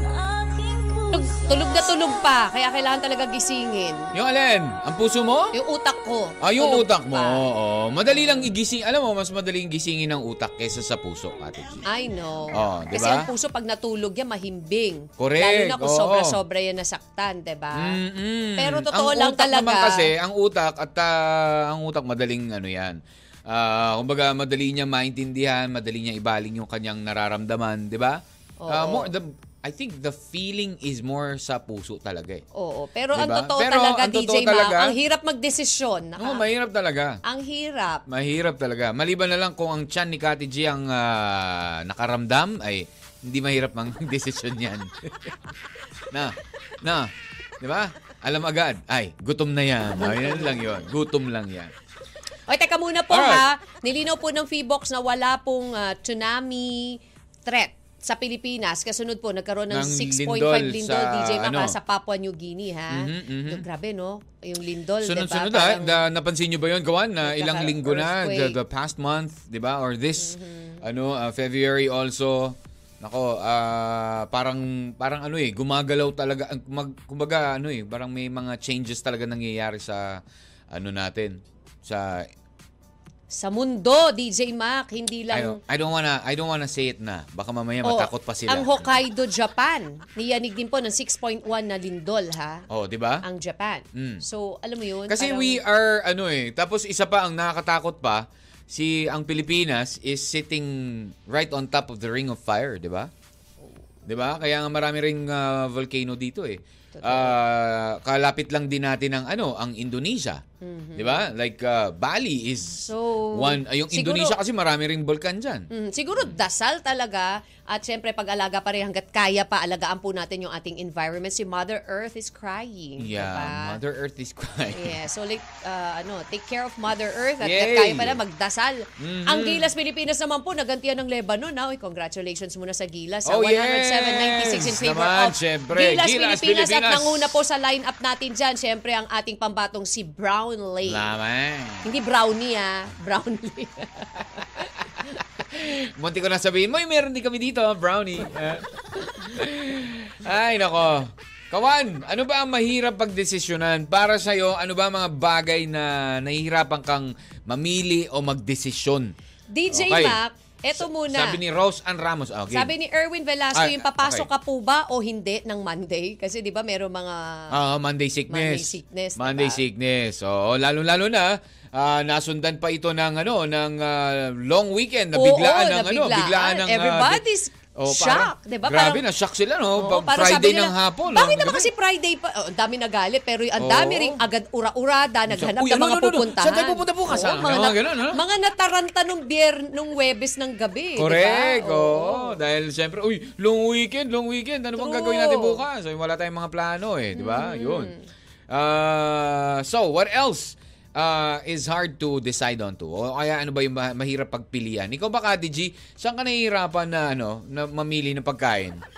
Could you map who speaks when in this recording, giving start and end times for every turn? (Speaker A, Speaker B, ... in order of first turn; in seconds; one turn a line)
Speaker A: 1.1-4.1
Speaker B: 4.1-5.5
Speaker A: 5.5-7.4
Speaker B: 6.4-11.8
Speaker A: 11.8-18.0
Speaker B: 12.5-13.3
Speaker B: 15.2-16.4
Speaker B: 17.8-32.4
Speaker A: 18.6-20.1
Speaker A: 28.6-29.1
Speaker A: 32.5-36.4
Speaker B: 33.1-35.0
Speaker B: 36.2-37.2
Speaker A: 37.2-38.0
Speaker B: 38.1-45.3
Speaker B: 46.1-47.1
Speaker B: 47.6-51.7
Speaker A: 50.0-50.8
Speaker A: 52.5-66.0
Speaker B: 53.1-53.5
Speaker B: 59.7-61.8
Speaker B: 62.9-63.6
Speaker B: 65.0-82.3
Speaker A: 67.2-68.5
Speaker A: 70.2-70.8
Speaker A: 83.3-85.6
Speaker B: 85.3-89.0
Speaker A: 87.8-92.6
Speaker B: 92.7-93.2
Speaker A: 93.2-95.6
Speaker B: 93.9-94.2
Speaker B: 95.1-103.1
Speaker B: 104.1-110.4
Speaker A: 106.9-107.4
Speaker A: 110.6-111.3
Speaker B: 111.0-115.7
Speaker A: 112.8-114.4
Speaker A: 115.7-123.8
Speaker B: 123.0-125.0
Speaker A: 124.7-141.1
Speaker B: 127.4-128.2
Speaker B: 129.0-129.7
Speaker B: 133.2-137.3
Speaker B: 140.8-141.9
Speaker A: 141.8-145.2
Speaker B: 145.4-159.1
Speaker A: 159.5-161.4
Speaker B: 159.7-160.2
Speaker B: 160.7-162.7
Speaker A: 162.5-167.5
Speaker B: 163.5-164.3
Speaker B: 167.5-177.2
Speaker A: 168.3-169.6
Speaker A: 175.1-179.0
Speaker B: 177.8-181.7
Speaker A: 179.8-192.4
Speaker B: 183.6-184.2
Speaker B: 185.3-188.2
Speaker B: 191.0-197.9
Speaker A: 194.8-195.6
Speaker A: 197.1-198.0
Speaker B: 198.5-208.8